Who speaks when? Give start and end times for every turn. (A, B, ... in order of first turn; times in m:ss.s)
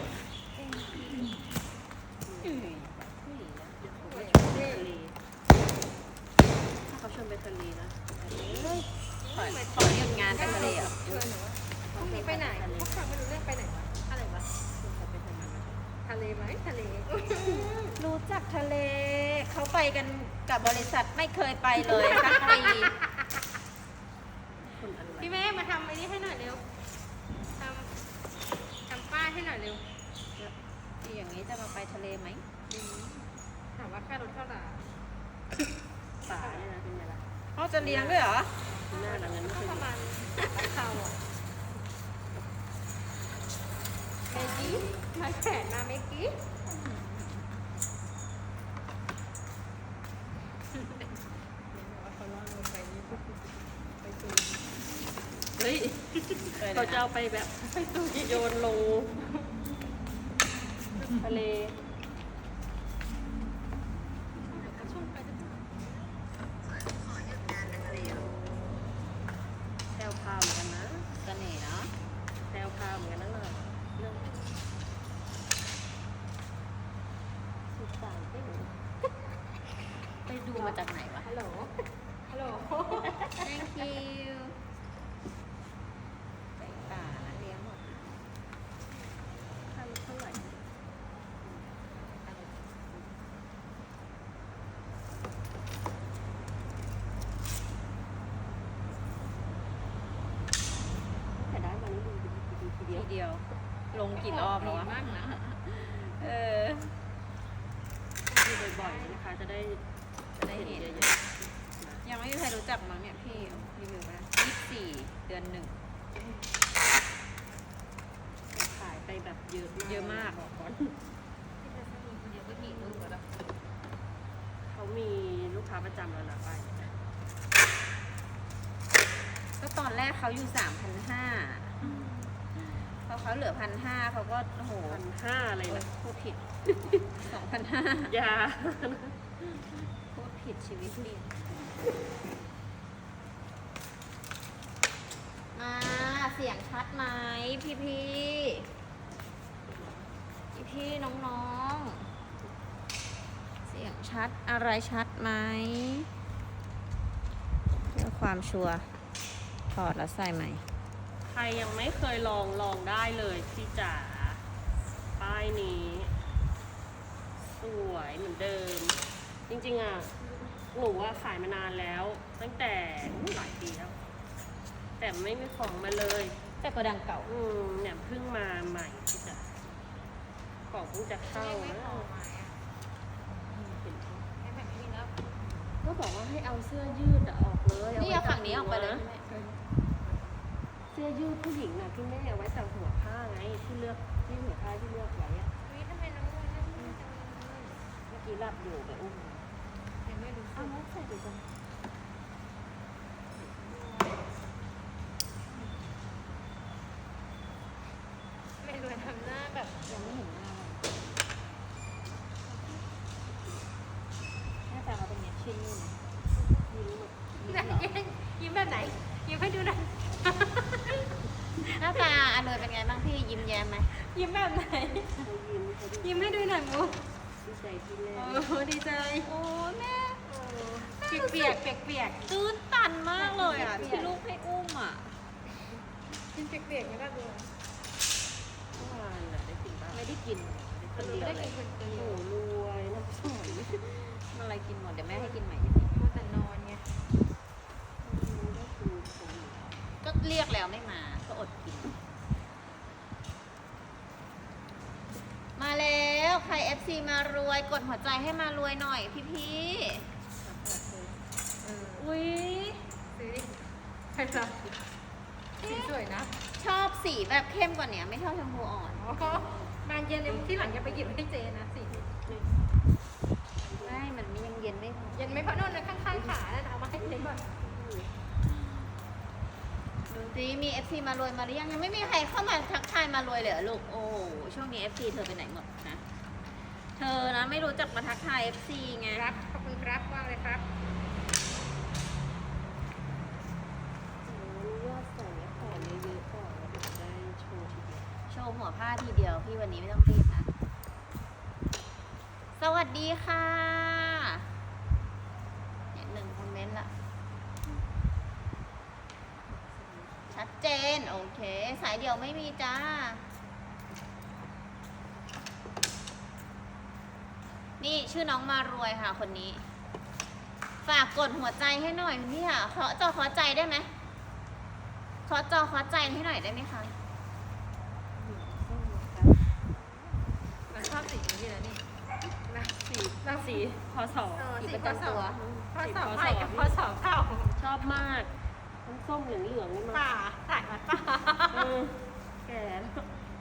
0:00.6-0:01.4 A
0:02.3-0:05.2 B
0:04.0-0:04.9 C
0:06.8-0:08.9 B
0:08.5-0:08.8 A
0:09.2-0:14.5 C
0:09.4-0:11.0 A
0:09.8-0:11.3 B
0:11.9-0:13.0 B
0:14.8-0:15.8 B
0:16.0-0:17.9 C
0:17.4-0:22.9 A
0:21.9-0:23.3 C
0:24.6-0:25.4 B
0:25.2-0:26.6 C
0:27.6-0:27.9 C
0:28.9-0:29.9 C
0:30.4-0:32.6 A
0:32.7-0:33.2 B
0:33.8-0:34.9 C
0:36.2-0:37.2 B
0:36.4-0:36.6 C
0:37.6-0:38.5 A
0:37.8-0:38.3 B
0:38.7-0:41.2 C
0:38.9-0:39.9 B
0:44.3-0:46.4 C
0:44.3-0:44.8 A
0:44.4-0:44.9 B
0:46.8-0:47.4 A
0:51.7-0:53.3 C
0:54.0-0:54.6 C
0:55.6-0:57.0 A
0:56.6-0:59.3 B
0:57.9-0:58.4 C
1:01.1-1:01.8 B
1:04.5-1:05.8 C
1:06.7-1:08.3 A
1:10.0-1:11.1 B
1:11.2-1:11.9 A
1:12.5-1:14.4 B
1:17.7-1:18.8 B
1:20.4-1:23.4 C
1:20.5-1:21.3 A
1:23.4-1:24.6 A
1:26.6-1:28.1 A
1:29.7-1:30.7 B
1:31.9-1:33.0 C
1:41.3-1:43.1 B
1:42.9-1:46.9 A
1:44.2-1:45.2 C
1:48.3-1:49.2 C
1:48.3-1:49.8 B
1:50.4-1:51.2 A
1:50.4-1:52.0 B
1:52.0-1:55.8 A
1:56.2-1:56.4 B
1:58.5-2:01.0 B
1:59.8-2:00.4 A
2:01.6-2:03.1 C
2:02.2-2:03.3 A
2:04.7-2:06.9 B
2:09.6-2:12.0 A
2:11.8-2:12.1 B
2:12.7-2:15.0 A
2:14.9-2:15.9 B
2:15.7-2:16.5 A
2:16.7-2:17.3 B
2:17.1-2:18.1 A
2:18.0-2:19.3 B
2:20.1-2:21.4 A
2:25.5-2:28.7 A
2:30.5-2:32.1 A
2:33.7-2:36.1 A
2:37.8-2:38.9 A
2:39.7-2:40.6 A
2:41.3-2:44.4 B
2:45.2-2:46.1 B
2:47.6-2:54.0 B
2:55.0-2:56.4 B
2:56.6-2:57.3 A
2:57.3-2:59.7 B
3:00.7-3:02.1 B
3:01.3-3:02.6 C
3:03.4-3:04.3 B
3:04.4-3:05.4 C
3:05.8-3:09.1 B
3:08.0-3:09.5 A
3:10.9-3:15.5 B
3:15.7-3:17.8 C
3:18.1-3:19.5 B
3:20.0-3:20.8 C
3:20.6-3:21.4 A
3:23.4-3:24.4 C
3:28.6-3:30.2 C
3:29.9-3:30.9 A
3:34.7-3:36.0 A
3:36.4-3:37.4 B
3:37.4-3:37.9 A
3:37.4-3:41.1 C
3:41.8-3:42.0 C
3:41.8-3:43.9 A
3:43.9-3:45.2 C
3:45.2-3:46.5 B
3:46.0-3:47.0 C
3:47.4-3:48.5 B
3:48.1-3:49.3 C
3:49.2-3:50.2 A
3:50.3-3:52.3 C
3:51.0-3:51.6 A
3:52.3-3:55.2 A
3:53.2-3:54.2 C
3:56.3-3:57.5 C
3:58.7-4:00.1 B
3:59.9-4:01.5 A
4:01.0-4:02.2 C
4:01.0-4:04.2 B
4:04.3-4:05.9 A
4:05.9-4:06.9 C
4:08.0-4:09.8 B
4:10.0-4:12.0 A
4:15.6-4:20.1 A
4:20.4-4:21.2 B
4:21.6-4:22.1 C
4:22.0-4:22.9 A
4:23.2-4:24.7 C
4:25.6-4:26.3 C
4:25.7-4:25.9 A
4:26.6-4:29.2 A
4:29.0-4:32.1 C
4:29.2-4:29.7 B
4:30.3-4:31.1 B
4:32.1-4:32.5 B
4:33.6-4:34.0 B
4:33.8-4:36.3 A
4:35.1-4:37.4 C
4:37.0-4:38.2 B
4:40.1-4:46.0 A
4:47.0-4:49.3 A
4:49.1-4:50.7 C
4:54.2-4:58.1 B
4:58.3-5:00.5 A
5:02.6-5:04.5 A
5:05.9-5:06.9 A
5:09.8-5:10.4 B
5:10.3-5:13.2 A
5:17.8-5:19.6 A
5:20.8-5:23.9 A
5:25.3-5:27.0 A
5:28.2-5:29.4 B
5:30.7-5:31.8 C
5:32.5-5:33.7 C
5:32.9-5:36.8 B
5:34.4-5:37.6 C
5:37.6-5:38.3 B
5:38.8-5:40.0 B
5:39.9-5:41.7 A
5:41.5-5:43.1 B